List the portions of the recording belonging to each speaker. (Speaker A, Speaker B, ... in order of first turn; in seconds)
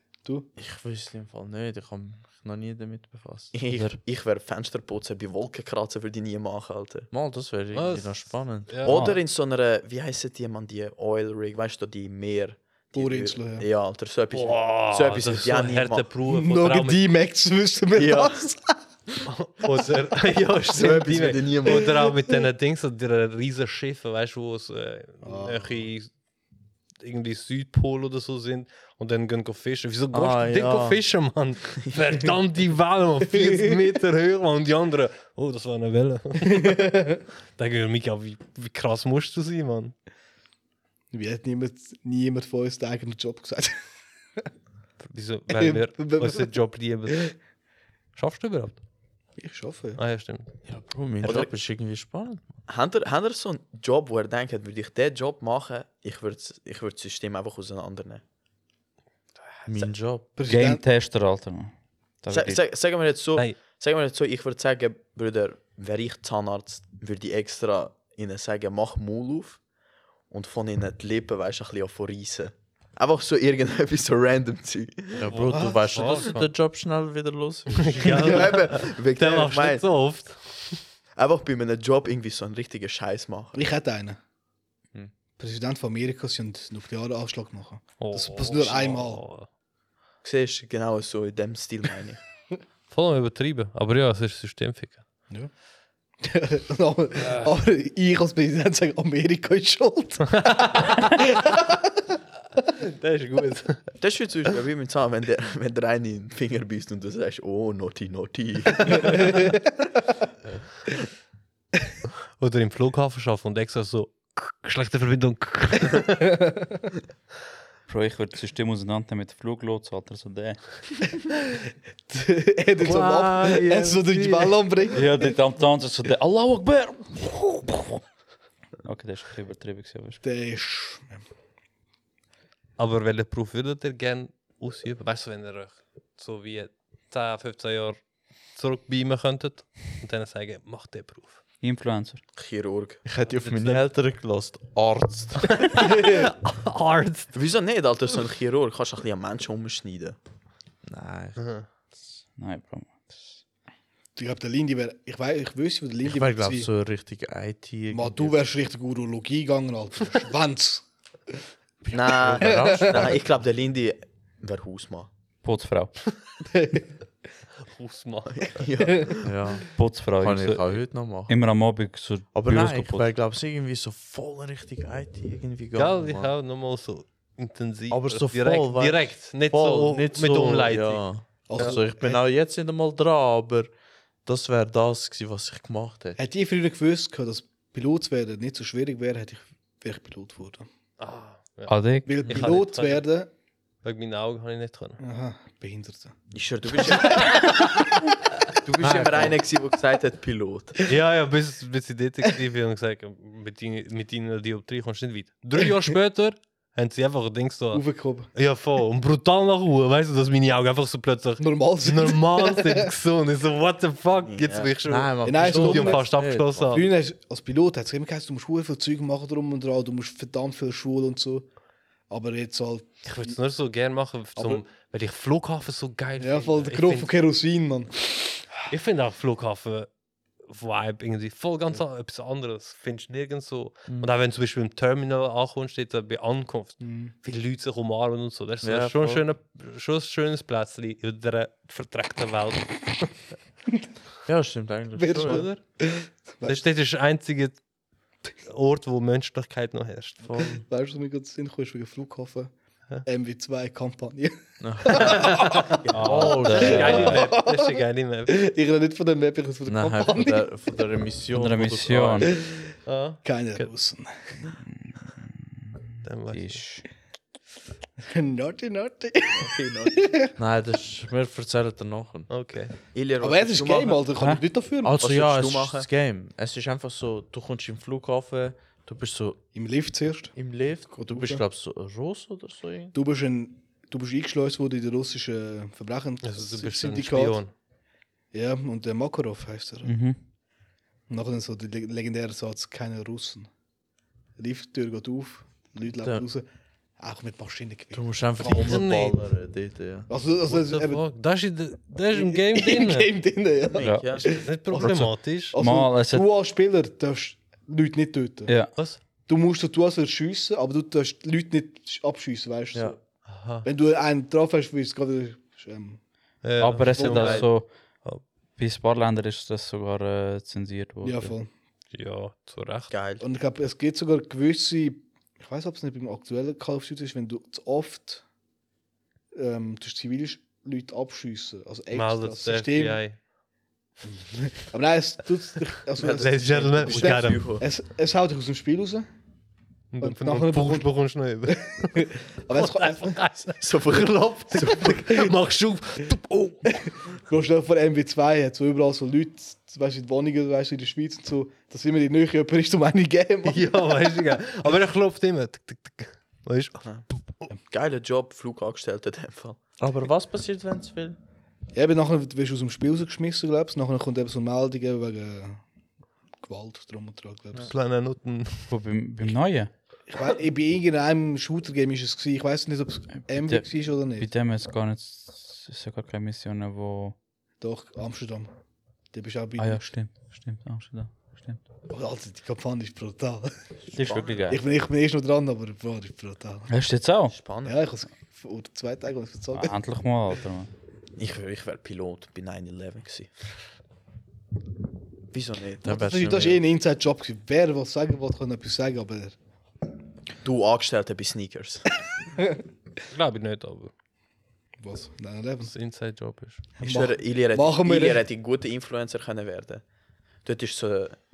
Speaker A: 0.6-3.6, 7.1-8.8, 30.1-31.0, 50.6-52.4, 59.6-60.3, 75.2-78.4, 143.0-145.9, 150.8-151.4, 156.0-158.4, 162.1-163.1, 169.2-171.3, 172.3-176.3, 177.9-183.7, 184.2-186.2, 198.8-199.4, 214.8-216.8, 233.9-234.1, 238.6-239.2, 244.2-245.5, 250.2-250.6, 254.6-257.3, 259.7-262.4, 270.4-272.3, 274.8-279.4, 280.3-282.9, 297.9-300.1, 359.8-361.2, 395.8-396.6
Speaker B: 3.5-7.1, 8.8-16.1, 17.9-18.5, 20.7-22.0, 51.2-51.5, 52.7-58.2, 62.3-69.6, 70.3-75.4, 78.0-79.8, 81.2-83.6, 90.2-92.2, 104.0-109.3, 142.3-143.0, 147.3-150.2, 161.9-165.1, 168.3-169.3, 196.3-197.3, 198.6-200.8, 214.2-214.7, 269.3-270.1, 272.9-274.1, 275.0-275.9, 303.7-304.4, 322.9-323.2, 336.0-337.6, 343.6-345.2, 357.7-359.6, 383.8-384.6, 387.3-387.8, 391.2-393.3, 395.3-396.0, 400.4-401.9, 406.8-409.8, 410.4-411.2
Speaker C: 7.7-9.2, 14.3-17.0, 19.2-26.1, 27.0-36.9, 37.5-39.9, 45.0-47.4, 48.1-48.8, 50.0-50.5, 75.3-76.5, 77.7-80.8, 88.0-89.5, 92.9-95.0, 97.2-97.5, 100.4-101.3, 102.7-103.9, 112.4-116.4, 122.8-124.6, 132.8-138.0, 138.5-141.4, 143.3-143.8, 145.6-147.3, 151.4-151.7, 167.7-168.6, 175.8-181.8, 191.0-193.0, 193.8-195.0, 200.8-207.8, 208.3-216.9, 223.1-227.1, 228.7-229.9, 230.4-243.2, 245.2-245.6, 246.4-247.6, 248.4-250.4, 254.9-258.4, 262.9-263.2, 266.0-266.6, 272.3-272.7, 286.2-287.5, 298.4-299.2, 300.5-303.1, 304.3-305.6, 313.3-313.7, 316.4-317.5, 321.9-322.9, 331.9-333.2, 336.0-337.4, 339.9-346.7, 353.4-356.8, 367.7-368.7, 403.1-403.9, 405.6-406.6
Speaker D: 12.9-13.7, 16.2-18.8, 21.9-22.4, 25.2-25.8, 33.3-33.8, 36.5-37.2, 41.1-43.8, 45.5-47.3, 49.4-50.0, 60.4-60.8, 75.5-75.9, 83.5-84.2, 85.4-89.2, 96.2-102.0, 109.2-109.5, 116.2-116.8, 122.1-125.3, 130.2-131.2, 145.8-146.3, 154.2-156.7, 157.9-161.3, 162.1-163.1, 166.5-166.9, 181.5-182.2, 186.2-190.7, 192.1-193.3, 195.0-196.2, 196.8-197.3, 207.7-208.3, 211.4-212.9, 215.2-216.1, 216.7-221.5, 222.1-223.3, 224.3-224.6, 226.2-228.6, 236.8-237.1, 245.0-246.6, 250.4-252.5, 253.0-260.5, 262.4-262.7, 263.2-264.3, 268.0-270.3, 273.2-275.0, 279.5-280.3, 280.9-281.4, 282.9-287.4, 288.3-289.9, 291.1-293.5, 294.4-296.4, 297.0-298.9, 300.1-301.0, 302.1-308.6, 309.3-313.0, 313.6-316.0, 316.8-317.4, 321.0-321.5, 323.2-328.2, 329.3-333.0, 334.1-339.1, 340.0-340.9, 341.5-343.2, 346.6-353.7, 361.7-365.6, 366.4-367.7, 370.1-374.3, 377.6-378.5, 379.1-379.9, 381.9-383.6, 384.5-386.7, 387.6-389.7, 395.8-399.4, 404.8-405.7, 406.8-408.2
Speaker E: 60.4-62.6, 117.9-121.1, 124.9-128.0, 128.8-130.2, 141.6-142.2, 152.4-153.3, 165.4-165.9, 169.7-173.1, 191.7-192.3, 255.9-257.1, 261.3-262.4, 264.8-266.9, 289.8-290.2, 303.8-304.2, 304.8-306.2, 308.5-308.7, 316.6-317.7, 318.6-321.3, 368.7-369.7, 373.2-377.1, 379.6-381.6, 383.9-384.6, 386.7-387.4, 389.5-390.7